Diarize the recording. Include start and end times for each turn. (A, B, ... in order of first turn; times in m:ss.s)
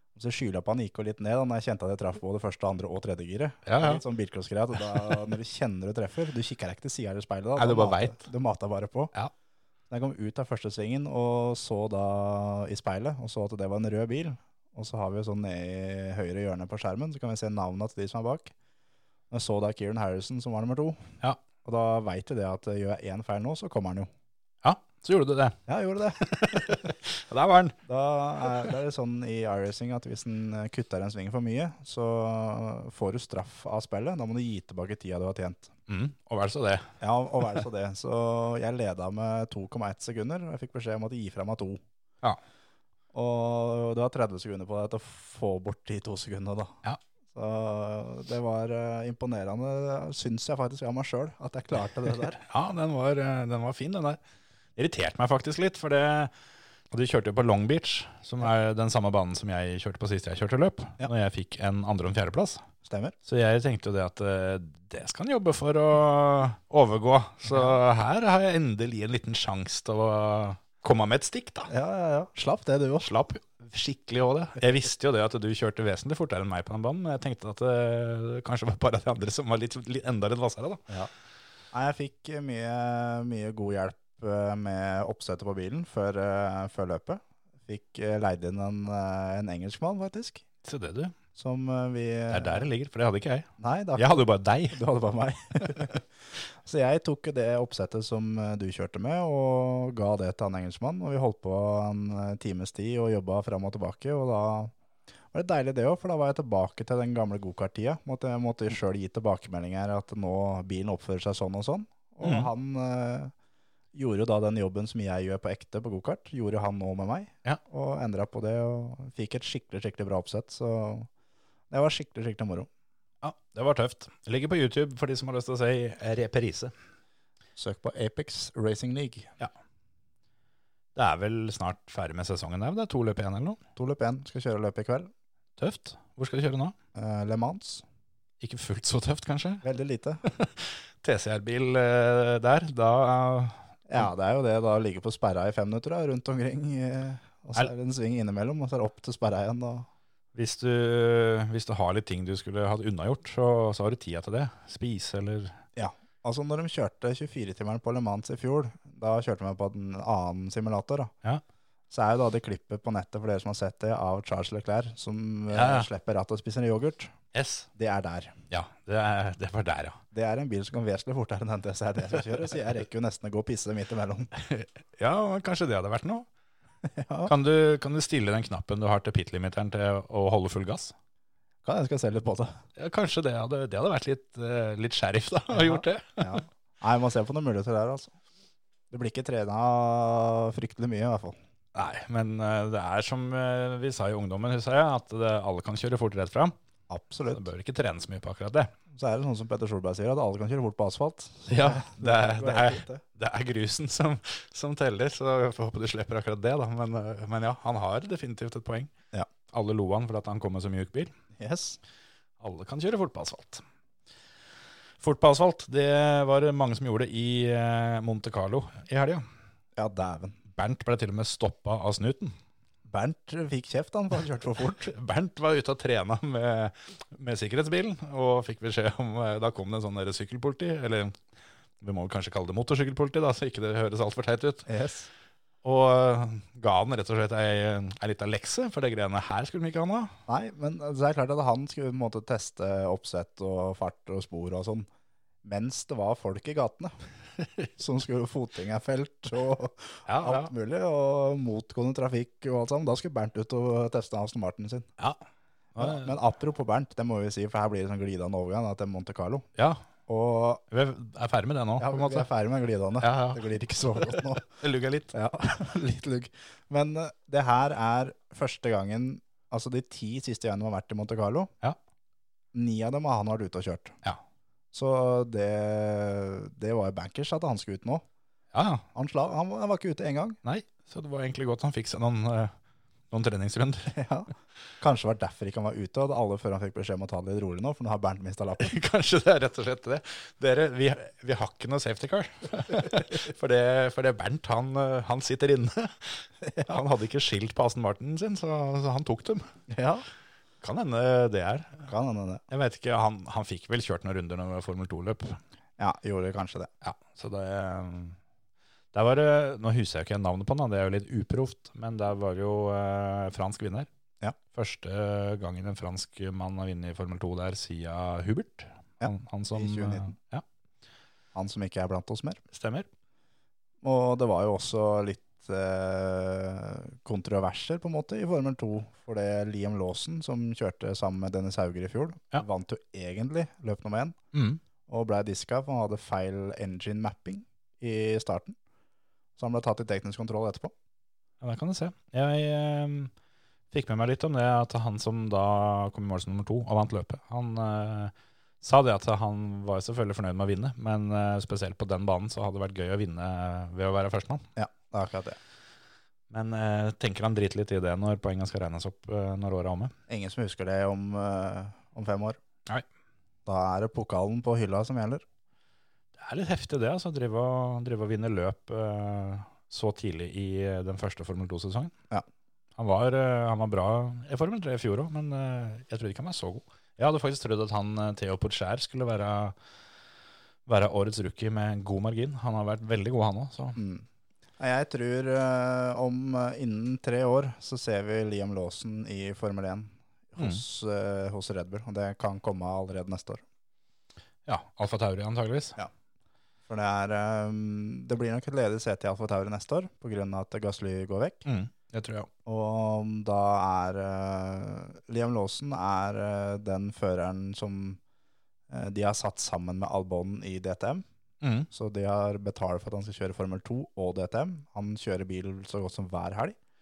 0:00.2-0:09.1 A
0:03.7-0:04.0 B
0:07.6-0:08.3 B
0:09.9-0:18.5 A
0:19.3-0:21.0 A
0:21.6-0:24.1 A
0:24.6-0:25.6 B
0:25.7-0:26.9 A
0:26.2-0:27.8 B
0:27.9-0:35.7 A
0:35.9-0:36.9 B
0:37.0-0:41.8 A
0:43.1-0:46.8 A
0:47.3-0:52.4 A
0:52.5-0:54.2 B
0:54.8-0:56.3 B
0:56.9-1:02.6 B
1:02.8-1:03.2 A
1:03.2-1:11.7 B
1:11.7-1:13.1 A
1:13.0-1:20.9 B
1:21.7-1:30.4 A
1:30.6-1:31.1 B
1:31.4-1:32.7 A
1:32.3-1:34.8 B
1:33.6-1:44.7 A
1:45.3-1:53.3 A
1:52.2-1:52.5 B
1:53.9-2:01.1 A
2:01.7-2:02.7 A
2:03.2-2:06.7 B
2:07.6-2:09.3 A
2:11.0-2:13.6 B
2:13.8-2:15.1 A
2:15.6-2:16.8 B
2:17.0-2:17.8 A
2:18.4-2:19.6 B
2:19.6-2:20.2 A
2:20.3-2:24.0 B
2:23.9-2:29.9 A
2:30.4-2:35.6 B
2:35.8-2:41.1 A
2:41.9-2:47.1 A
2:45.5-2:45.9 B
2:47.3-2:47.7 B
2:47.8-2:48.4 A
2:48.5-2:50.0 B
2:50.1-2:54.3 A
2:54.4-2:56.3 B
2:56.9-2:57.3 A
2:57.3-3:01.0 B
3:01.6-3:02.6 A
3:02.8-3:06.4 B
3:05.5-3:08.1 A
3:08.9-3:11.4 A
3:11.8-3:16.6 B
3:16.9-3:17.4 A
3:17.3-3:18.7 B
3:18.9-3:23.0 A
3:21.5-3:28.9 B
3:29.5-3:31.1 B
3:31.4-3:31.8 A
3:32.4-3:33.6 B
3:35.0-3:39.2 B
3:39.8-3:40.4 A
3:40.6-3:42.4 B
3:42.9-3:44.9 A
3:44.8-3:51.2 B
3:51.8-3:54.7 B
3:54.7-3:55.1 A
3:55.6-4:00.2 B
4:00.3-4:04.9 A
4:05.4-4:06.9 A
4:07.8-4:14.9 A
4:10.1-4:10.5 B
4:15.8-4:16.2 B
4:15.8-4:19.5 A
4:19.6-4:19.8 B
4:20.1-4:20.6 A
4:20.7-4:22.3 B
4:21.8-4:24.5 A
4:23.0-4:25.1 B
4:25.1-4:31.5 A
4:32.5-4:34.0 A
4:34.7-4:38.0 A
4:38.5-4:38.8 B
4:38.9-4:40.4 A
4:40.4-4:42.5 B
4:43.1-4:44.0 B
4:43.9-4:44.3 A
4:44.8-4:48.7 A
4:48.6-4:59.5 B
4:59.7-5:00.0 A
5:00.6-5:01.9 B
5:01.9-5:02.4 A
5:02.5-5:05.4 B
5:05.8-5:06.7 A
5:06.8-5:08.2 B
5:08.9-5:13.9 B
5:14.5-5:20.4 B
5:19.0-5:20.1 A
5:21.4-5:22.4 A
5:22.5-5:22.9 B
5:23.8-5:34.2 A
5:34.3-5:34.6 B
5:34.9-5:38.6 A
5:39.4-5:40.7 A
5:41.4-5:43.1 B
5:43.7-5:54.5 B
5:54.6-5:55.4 A
5:56.3-5:59.9 B
6:00.1-6:02.4 A
6:03.5-6:05.2 A
6:06.2-6:11.9 B
6:12.8-6:19.6 B
6:20.7-6:23.8 B
6:23.8-6:24.0 A
6:24.6-6:33.4 A
6:34.5-6:35.8 B
6:36.7-6:41.4 A
6:41.5-6:42.3 B
6:42.5-6:48.0 A
6:48.7-6:51.0 A
6:51.4-6:51.7 B
6:51.7-6:56.6 A